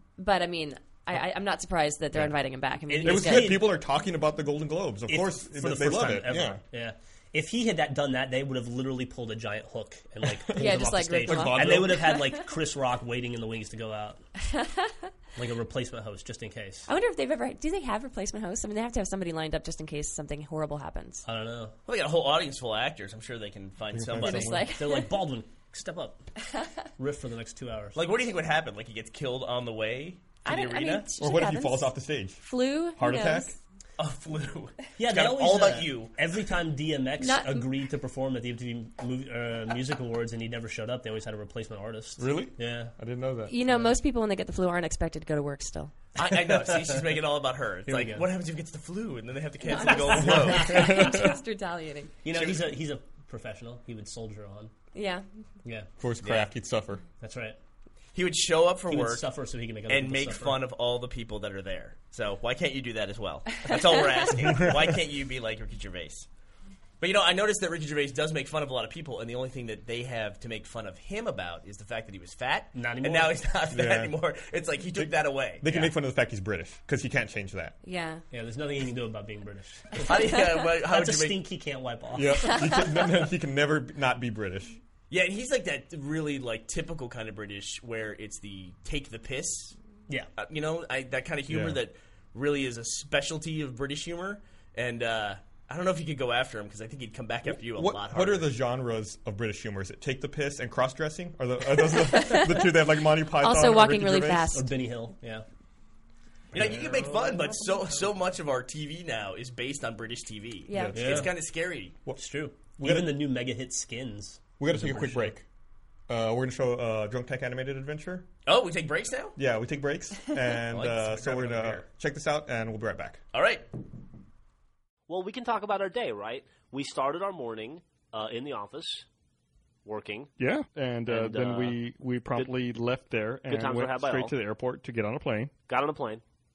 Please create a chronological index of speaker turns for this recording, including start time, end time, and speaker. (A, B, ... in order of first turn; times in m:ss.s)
0:00.2-0:03.7 A
0:02.9-0:03.8 B
0:03.0-0:06.6 C
0:05.1-0:14.2 B
0:10.5-0:12.1 C
0:10.5-0:12.5 A
0:14.5-0:14.9 A
0:15.4-0:16.9 B
0:16.9-0:21.2 A
0:21.2-0:21.7 B
0:21.9-0:24.6 D
0:23.9-0:24.6 C
0:24.2-0:25.2 A
0:24.7-0:26.2 B
0:27.0-0:28.0 B
0:28.0-0:31.1 D
0:30.4-0:33.6 A
0:31.2-0:32.4 C
0:33.0-0:33.6 C
0:34.0-0:36.2 D
0:35.0-0:43.0 B
0:37.2-0:37.7 A
0:42.2-0:43.6 C
0:43.5-0:45.9 A
0:46.2-0:51.1 D
0:46.2-0:47.0 B
0:47.9-0:48.2 B
0:49.7-0:52.1 A
0:49.8-0:51.1 B
0:50.2-0:51.3 C
0:52.2-0:54.7 B
0:52.3-0:52.7 D
0:54.9-0:55.3 A
0:55.6-0:55.9 B
0:56.0-0:57.0 C
0:57.2-0:57.6 B
0:58.2-0:59.3 D
0:58.9-1:00.6 B
0:59.9-1:06.3 D
1:07.0-1:15.7 D
1:12.7-1:13.4 B
1:13.7-1:14.2 C
1:15.0-1:17.8 C
1:17.8-1:18.2 A
1:18.3-1:22.8 B
1:20.1-1:21.4 D
1:22.2-1:24.8 C
1:22.5-1:22.8 A
1:25.1-1:29.8 D
1:30.4-1:38.5 D
1:31.5-1:31.8 C
1:37.5-1:44.6 C
1:41.9-1:42.8 A
1:43.4-1:44.7 A
1:44.5-1:45.4 B
1:46.5-1:52.0 D
1:46.5-1:47.8 B
1:46.6-1:47.0 C
1:50.7-1:51.1 A
1:50.7-1:51.3 C
1:51.0-1:51.3 B
1:52.2-1:55.3 B
1:52.8-1:53.2 C
1:54.6-1:55.4 C
1:56.1-1:58.3 C
1:58.5-1:59.4 D
1:59.4-2:03.2 C
2:00.7-2:01.8 D
2:03.3-2:03.7 D
2:05.1-2:09.0 E
2:09.8-2:10.3 E
2:10.4-2:15.5 F
2:11.1-2:12.6 E
2:13.5-2:14.3 E
2:15.6-2:16.2 E